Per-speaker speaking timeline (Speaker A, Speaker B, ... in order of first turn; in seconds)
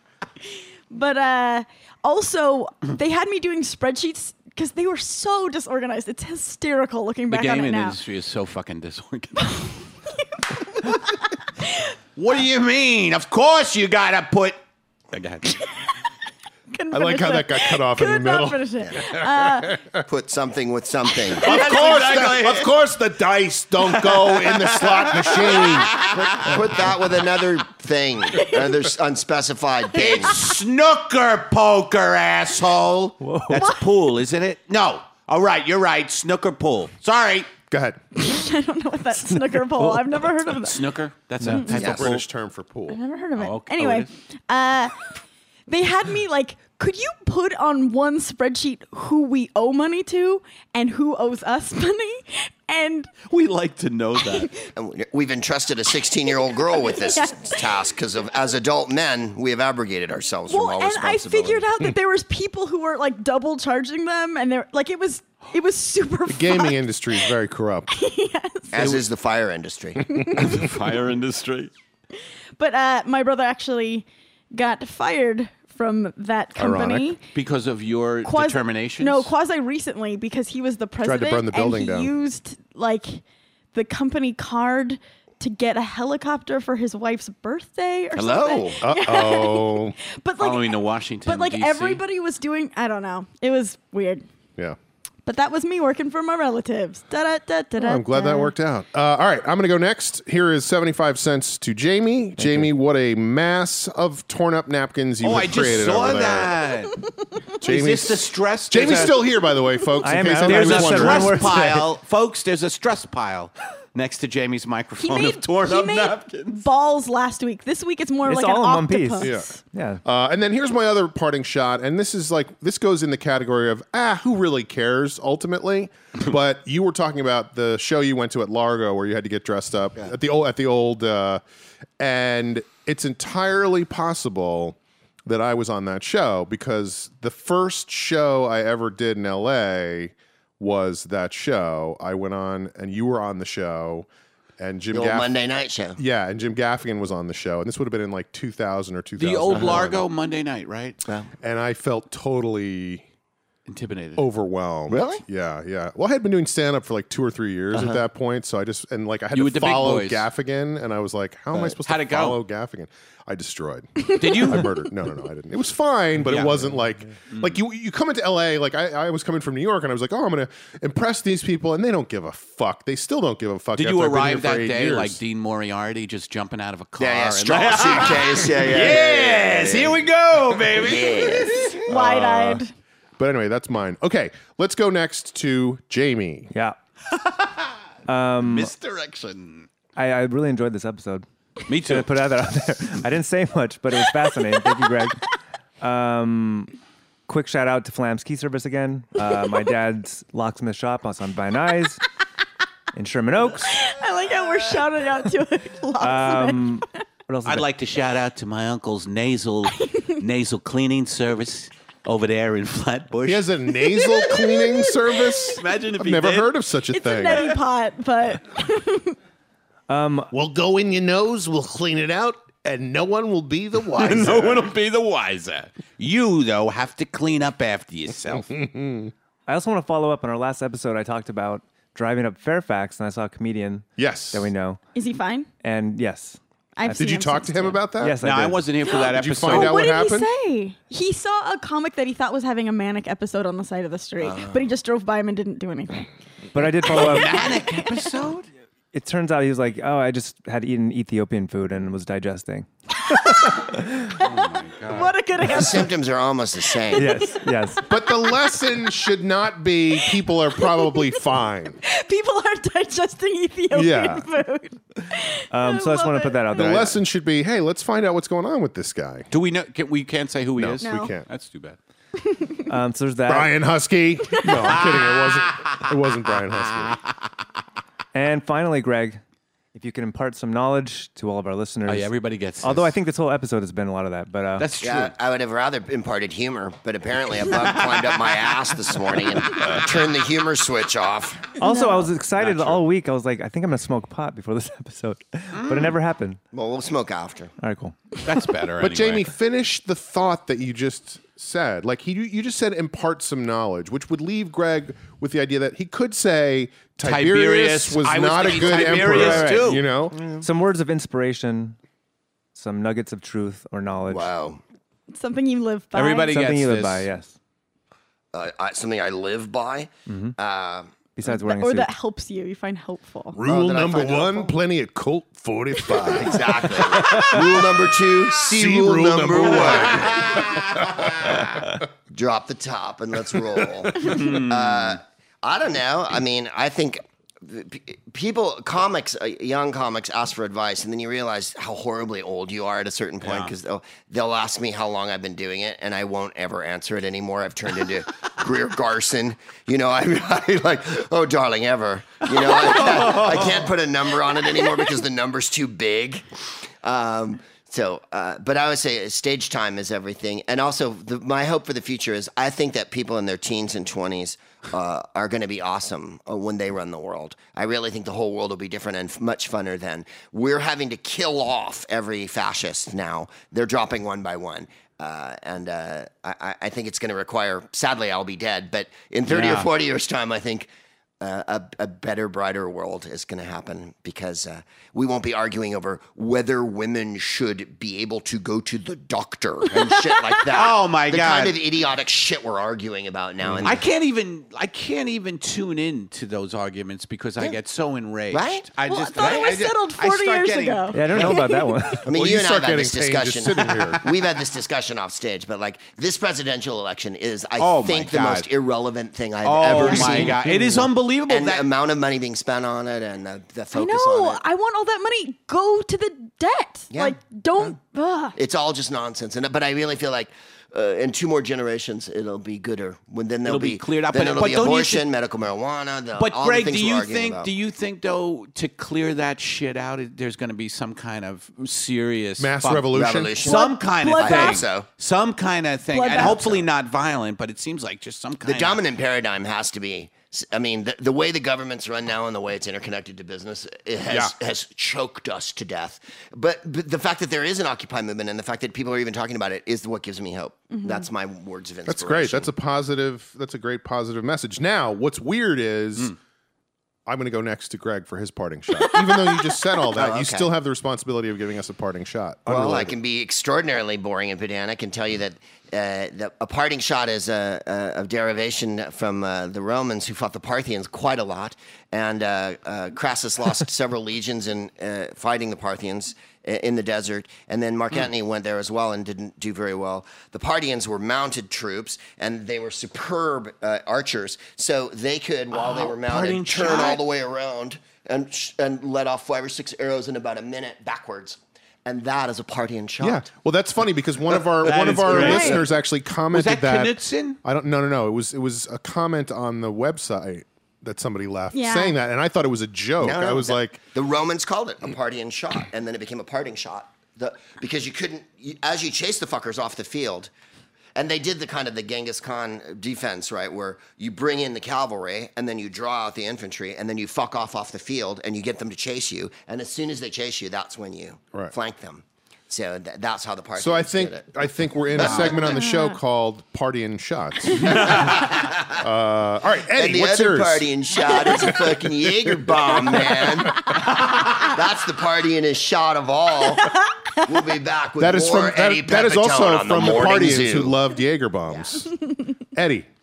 Speaker A: 0.9-8.0, 10.5-10.9, 11.6-11.9, 16.7-19.9, 28.3-28.7, 33.5-33.8, 38.1-40.8, 41.5-42.0, 42.9-45.0, 45.7-53.1, 54.2-54.5, 56.8-57.9, 60.5-67.3, 67.9-68.8, 70.1-70.7, 72.6-77.2, 78.2-83.2, 83.7-94.2, 95.2-98.5, 115.0-119.6, 164.3-164.7, 181.9-182.7, 203.7-206.8, 213.9-215.6, 216.9-219.2, 234.9-235.5, 236.8-237.7, 238.9-246.1, 253.1-256.0, 256.6-258.3, 260.0-261.1, 261.8-266.8, 270.8-271.1, 272.2-272.7, 274.3-274.9, 291.6-292.1, 315.1-316.4, 321.2-323.4, 389.8-390.1, 398.9-402.0, 413.7-418.4, 433.4-434.7, 435.9-436.6, 450.7-451.1, 458.9-459.7, 495.2-495.6, 501.5-502.0, 525.1-526.0, 527.5-527.9
Speaker B: 7.3-9.8, 12.2-14.6, 15.1-15.6, 21.4-22.7, 23.8-26.8, 29.9-37.5, 40.6-42.2, 43.4-44.1, 53.3-54.5, 68.7-69.0, 70.3-71.7, 77.3-79.3, 90.4-92.0, 105.2-107.0, 107.6-109.3, 110.4-116.7, 149.2-151.0, 153.7-154.2, 159.3-160.3, 161.8-162.4, 164.2-164.7, 166.2-166.8, 167.3-167.6, 173.8-181.8, 188.4-189.7, 191.7-192.1, 207.4-213.5, 215.6-216.5, 217.2-217.6, 224.0-228.5, 238.2-239.8, 246.9-248.5, 254.2-255.2, 269.3-271.8, 274.9-275.8, 281.9-283.0, 284.6-285.1, 292.4-292.8, 295.6-295.9, 298.2-299.3, 307.0-309.8, 315.9-317.1, 329.7-330.6, 334.0-335.0, 343.2-343.5, 352.2-353.7, 379.3-379.7, 390.5-391.6, 393.6-401.4, 407.6-408.5, 409.4-411.7, 423.4-425.1, 426.2-438.8, 485.5-487.0, 494.6-495.7, 496.3-497.4, 525.0-525.5, 527.9-528.3
Speaker C: 16.9-20.0, 21.4-26.5, 37.7-38.0, 41.7-43.0, 66.3-67.9, 76.6-77.1, 81.0-82.1, 88.8-90.0, 97.8-106.5, 107.6-111.5, 119.2-119.5, 120.0-131.4, 132.0-145.3, 146.0-150.1, 151.4-153.1, 154.2-175.2, 181.9-182.6, 183.2-186.5, 213.2-217.4, 220.3-224.7, 228.7-229.1, 234.0-234.5, 236.9-238.2, 238.9-240.3, 257.9-261.8, 263.7-264.3, 266.6-269.3, 270.6-271.3, 273.3-277.0, 298.8-310.1, 323.3-327.6, 328.3-331.5, 393.4-393.8, 402.1-404.1, 432.4-433.4, 444.1-444.3, 451.9-456.1, 457.1-462.9, 493.0-503.8, 523.6-533.7, 538.0-541.9, 542.5-542.9
Speaker D: 20.1-21.6, 26.3-30.4, 41.7-42.1, 54.8-61.6, 68.7-70.2, 88.2-88.8, 144.9-146.0, 154.9-155.2, 157.7-158.0, 177.0-180.0, 180.7-181.9, 255.4-257.1, 284.8-291.5, 296.5-297.5, 314.1-314.6, 318.3-320.9, 323.4-324.5, 325.9-331.4, 332.1-356.2, 356.8-380.7, 381.2-393.8, 398.3-398.7, 402.1-410.4, 411.3-414.4, 416.9-417.7, 418.4-427.5, 432.9-433.6, 434.2-434.9, 436.1-436.6, 438.4-452.5, 459.9-460.5, 462.5-493.2, 495.1-495.6, 503.0-510.3, 510.9-524.3, 525.0-525.4, 528.1-528.8, 529.7-540.8, 541.5-541.9
Speaker E: 33.2-33.6, 39.3-40.2, 41.4-41.7, 102.4-102.7, 110.0-111.9, 118.3-120.0, 188.1-188.7, 190.0-195.2, 195.8-196.7, 197.3-202.0, 202.9-203.8, 206.0-207.7, 219.9-220.3, 229.5-234.8, 235.6-238.7, 246.5-247.4, 248.9-253.5, 256.9-257.8, 265.5-267.0, 272.7-273.6, 278.1-279.2, 279.7-284.7, 291.6-296.4, 297.6-298.2, 309.0-309.7, 310.3-311.8, 312.6-314.3, 316.3-317.3, 320.1-320.4, 321.2-321.9, 400.9-402.0, 409.8-410.9